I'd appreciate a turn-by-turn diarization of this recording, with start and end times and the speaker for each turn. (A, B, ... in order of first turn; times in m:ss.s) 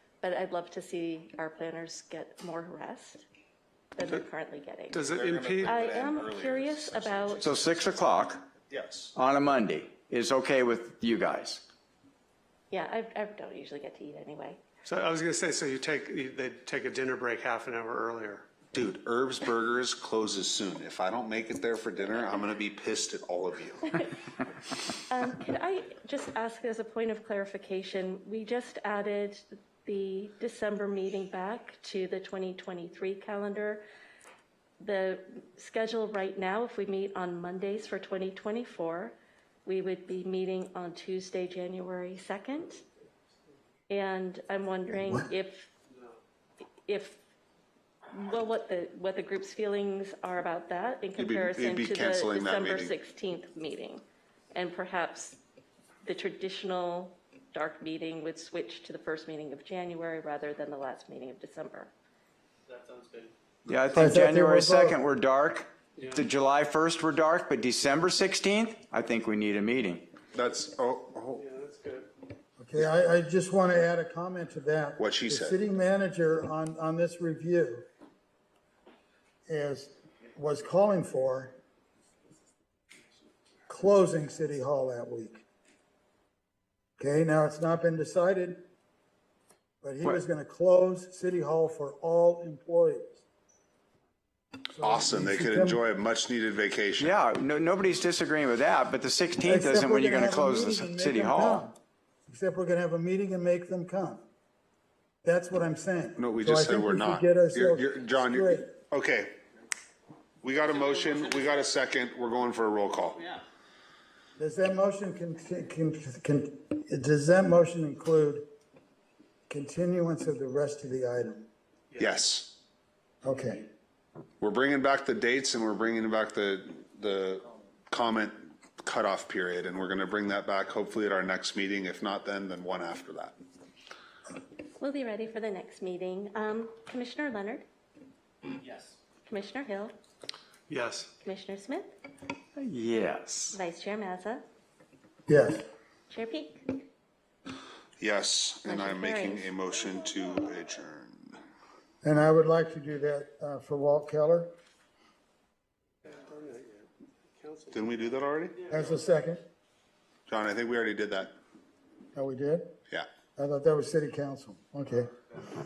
0:00.2-0:03.2 A
0:03.9-0:05.0 A
0:04.9-0:05.8 B
0:05.0-0:07.9 C
0:05.6-0:07.6 A
0:07.4-0:08.4 D
0:08.7-0:09.1 C
0:09.1-0:11.6 D
0:12.7-0:14.6 A
0:14.8-0:18.5 B
0:18.7-0:23.9 C
0:25.0-0:33.8 A
0:34.8-0:42.8 A
0:43.9-0:45.7 A
0:46.9-0:47.2 A
0:48.1-0:55.4 A
0:51.2-0:52.9 C
0:56.0-1:01.9 A
1:02.6-1:03.3 B
1:03.7-1:10.1 D
1:04.0-1:05.0 E
1:06.0-1:06.2 B
1:10.3-1:11.4 C
1:11.4-1:12.1 B
1:12.6-1:17.9 E
1:15.0-1:15.6 C
1:19.5-1:21.5 E
1:23.7-1:25.4 E
1:27.0-1:28.6 E
1:29.8-1:33.2 E
1:34.7-1:35.8 E
1:34.8-1:37.1 C
1:37.0-1:41.7 D
1:39.4-1:41.8 E
1:42.3-1:44.2 E
1:45.2-1:48.7 E
1:46.2-1:49.4 C
1:50.4-1:53.3 C
1:54.4-1:58.4 E
1:59.5-2:01.5 E
2:01.9-2:02.2 B
2:02.0-2:02.6 C
2:03.2-2:03.6 E
2:04.4-2:13.3 C
2:14.8-2:17.7 A
2:19.2-2:19.9 A
2:20.7-2:21.1 B
2:21.2-2:21.9 A
2:22.6-2:23.6 D
2:23.5-2:24.4 A
2:25.3-2:25.6 E
2:26.1-2:26.8 A
2:28.0-2:31.4 C
2:28.6-2:29.6 A
2:32.0-2:34.5 E
2:36.0-2:37.8 B
2:37.7-2:38.7 C
2:38.6-2:38.9 B
2:38.7-2:39.4 E
2:40.3-2:41.3 C
2:42.2-2:42.7 E
2:43.4-2:45.1 E